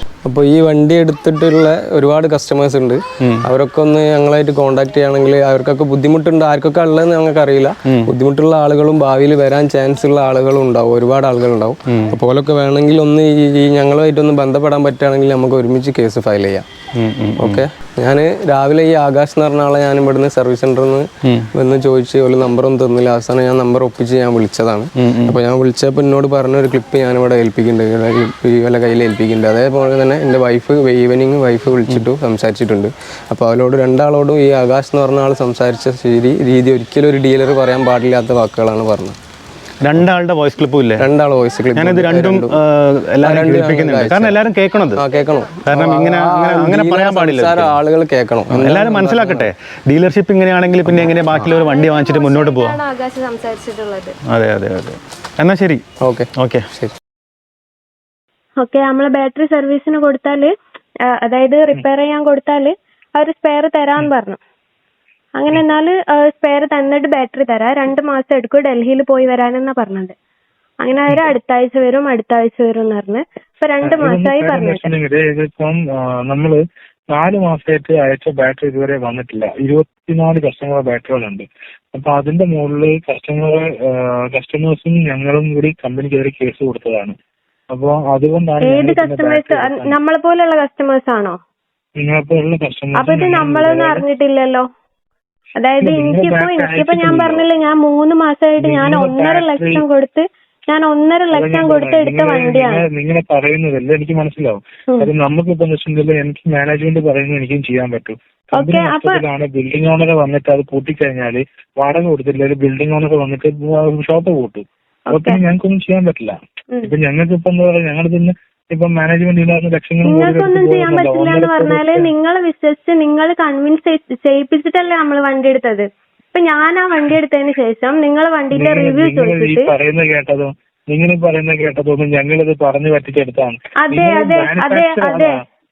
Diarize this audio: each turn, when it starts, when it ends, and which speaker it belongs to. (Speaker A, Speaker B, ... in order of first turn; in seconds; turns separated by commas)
Speaker A: 0.2-16.6, Speaker B: 11.9-12.2, Speaker B: 17.0-17.6, Speaker A: 17.4-39.2, Speaker B: 25.0-25.4, Speaker B: 39.8-41.1, Speaker A: 41.0-42.6, Speaker B: 41.8-45.0, Speaker A: 43.2-44.4, Speaker A: 45.0-49.5, Speaker C: 45.1-45.5, Speaker B: 45.6-47.8, Speaker B: 48.5-52.8, Speaker A: 50.9-51.5, Speaker C: 51.4-54.2, Speaker B: 54.3-55.8, Speaker A: 56.0-57.0, Speaker B: 56.4-56.6, Speaker D: 58.6-60.5, Speaker D: 61.1-64.4, Speaker D: 65.4-70.1, Speaker D: 70.8-74.9, Speaker E: 73.8-76.6, Speaker E: 77.1-87.2, Speaker E: 87.7-90.0, Speaker D: 88.6-91.4, Speaker E: 92.0-94.1, Speaker D: 93.0-94.7, Speaker D: 95.6-102.9, Speaker E: 95.8-97.5, Speaker E: 98.6-99.9, Speaker E: 101.3-122.1, Speaker D: 108.6-109.2, Speaker D: 115.1-115.4, Speaker D: 120.1-129.7, Speaker E: 128.5-135.4, Speaker D: 133.8-135.4